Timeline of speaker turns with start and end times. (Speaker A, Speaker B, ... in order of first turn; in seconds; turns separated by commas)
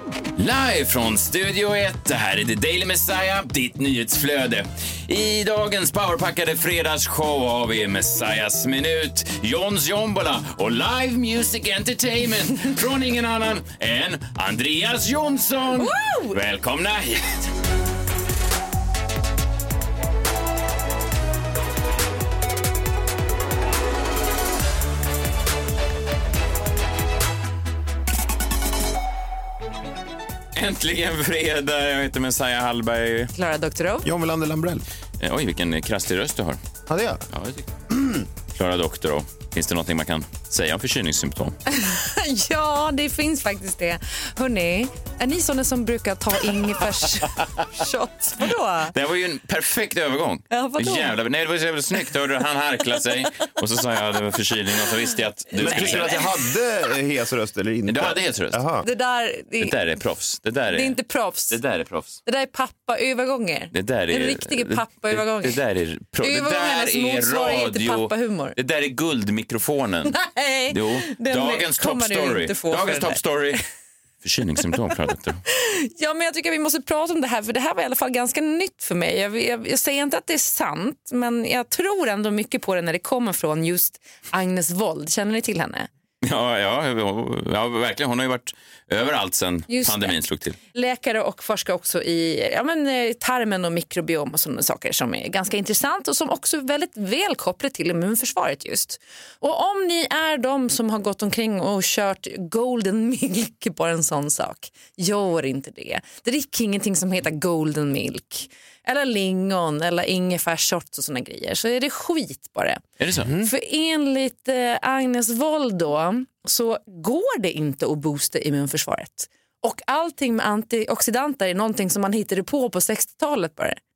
Speaker A: 0.4-17.5, Speaker B: 15.8-16.4, Speaker A: 30.6-33.3, Speaker B: 33.3-34.1, Speaker C: 34.0-34.8, Speaker A: 35.2-36.6, Speaker C: 36.9-37.2, Speaker A: 37.3-37.7, Speaker C: 37.9-38.2, Speaker A: 38.5-41.5, Speaker B: 41.7-48.9, Speaker A: 48.9-56.2, Speaker B: 50.5-51.2, Speaker C: 55.5-58.9, Speaker B: 55.6-56.1, Speaker A: 57.9-58.6, Speaker B: 58.8-59.8, Speaker A: 59.6-61.0, Speaker B: 60.7-61.6, Speaker A: 61.5-62.2, Speaker B: 62.3-65.6, Speaker A: 63.7-70.2, Speaker B: 66.2-68.6, Speaker B: 70.1-73.6, Speaker A: 70.7-73.6, Speaker A: 74.2-75.4, Speaker B: 75.6-85.9, Speaker A: 86.2-90.6, Speaker B: 89.7-90.2, Speaker B: 90.7-112.8, Speaker A: 113.0-113.3, Speaker C: 113.2-113.5, Speaker B: 113.4-123.8